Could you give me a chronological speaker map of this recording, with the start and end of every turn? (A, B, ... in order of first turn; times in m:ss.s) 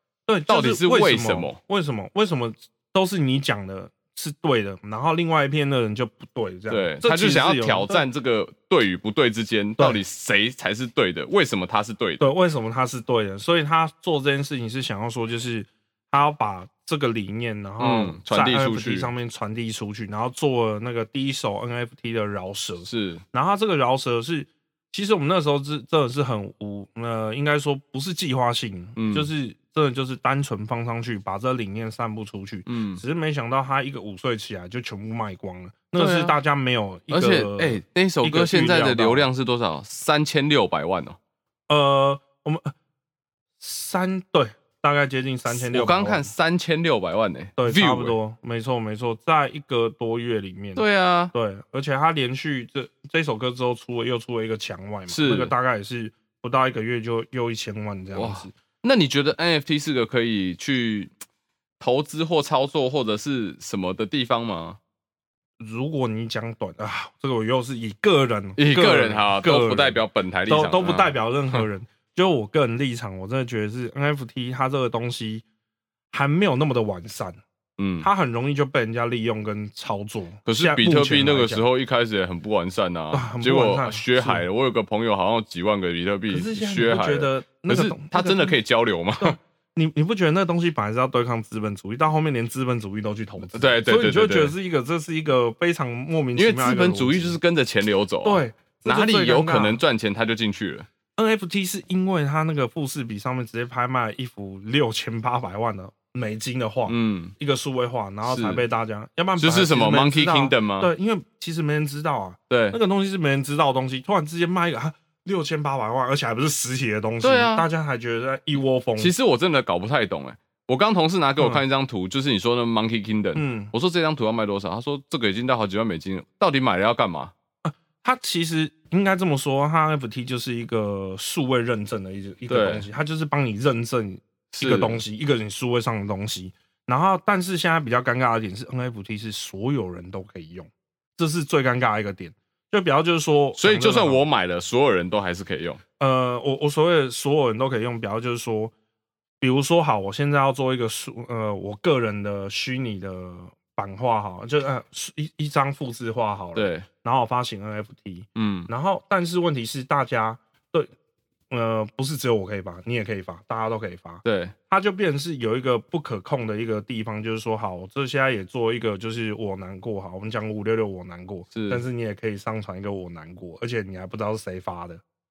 0:00.3-0:08.0 A
0:00.5-0:01.6 B
0:06.7-0:12.2 B
0:12.2-0:39.3 A
0:17.8-0:19.1 B
0:22.8-0:23.2 B
0:29.0-0:29.3 B
0:32.6-0:33.0 B
0:35.9-0:36.4 B
0:37.1-0:41.2 B
0:41.7-0:42.7 A
0:43.6-0:46.3 A
0:45.5-0:48.2 B
0:47.6-0:58.5 A
0:50.8-0:51.3 B
0:55.1-0:55.5 B
0:58.1-1:01.1 B
1:01.8-1:04.8 B
1:05.6-1:15.4 A
1:08.6-1:11.6 B
1:16.1-1:17.4 A
1:17.8-1:18.1 B
1:18.0-1:21.6 A
1:20.4-1:29.4 B
1:23.1-1:24.4 A
1:26.3-1:28.6 A
1:29.2-1:37.4 A
1:33.5-1:34.5 B
1:36.3-1:40.9 B
1:38.2-1:39.8 A
1:41.2-1:59.1 A
1:46.9-1:47.3 B
1:48.2-1:48.6 B
1:49.4-1:50.9 B
1:52.5-1:52.8 B
1:57.2-1:57.6 B
1:59.0-2:07.3 B
2:01.4-2:01.6 A
2:03.3-2:03.7 A
2:07.6-2:24.2 A
2:12.5-2:12.9 B
2:14.5-2:15.0 B
2:23.6-2:25.8 B
2:26.0-2:28.7 A
2:29.4-2:40.9 A
2:36.5-2:36.9 B
2:38.4-2:38.7 B
2:41.5-2:55.0 A
2:44.2-2:44.5 B
2:51.5-2:51.8 B